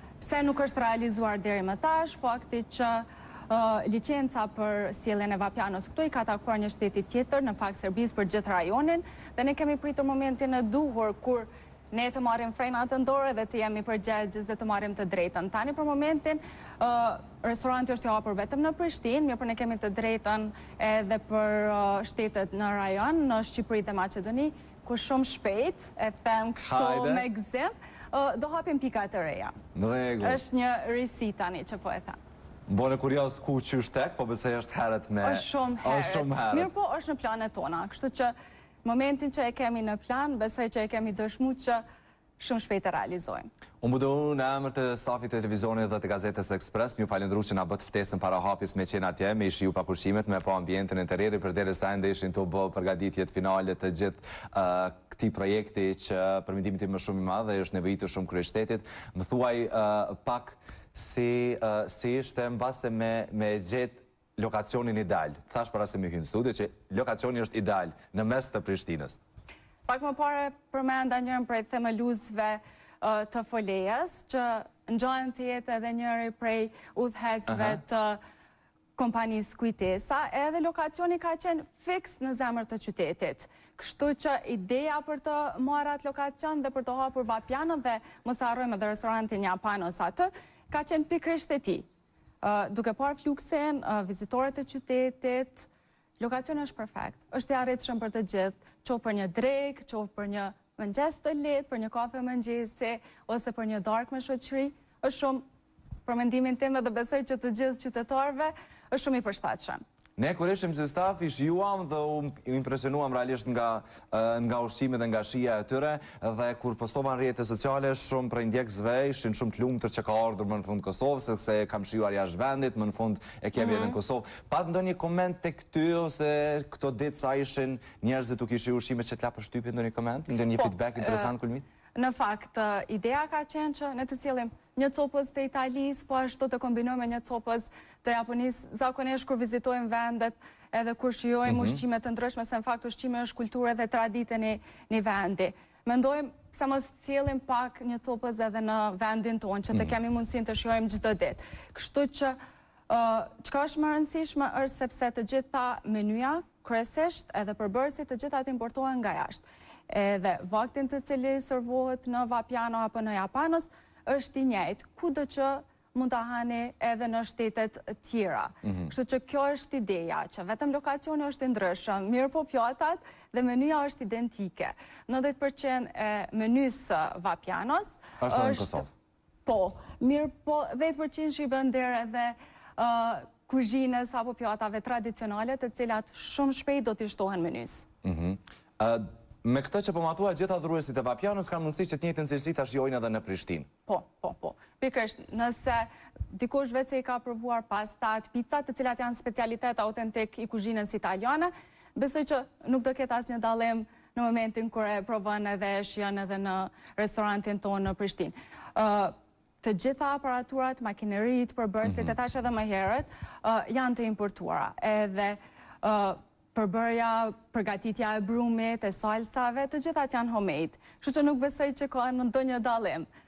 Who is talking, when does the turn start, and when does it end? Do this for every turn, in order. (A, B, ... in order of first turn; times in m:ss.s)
0:00.2-0:29.6 A
0:26.6-0:27.3 B
0:29.7-0:30.4 B
0:30.2-0:32.2 A
0:32.7-0:36.7 B
0:35.2-0:38.3 A
0:38.8-0:41.8 A
0:42.4-0:43.5 A
0:43.8-1:09.2 B
1:09.8-1:18.2 A
1:17.5-1:17.8 B
1:19.0-1:31.8 A
1:32.4-1:35.7 A
1:36.2-1:45.4 A
1:46.0-1:49.8 A
1:50.2-2:11.6 B
2:03.6-2:03.9 A
2:10.6-2:11.3 A
2:11.9-2:32.3 A
2:21.5-2:21.8 B
2:32.9-2:58.9 A
2:48.6-2:48.9 B
2:58.2-2:58.9 B
2:59.4-3:07.8 A
3:08.0-3:13.7 B
3:13.8-3:43.1 A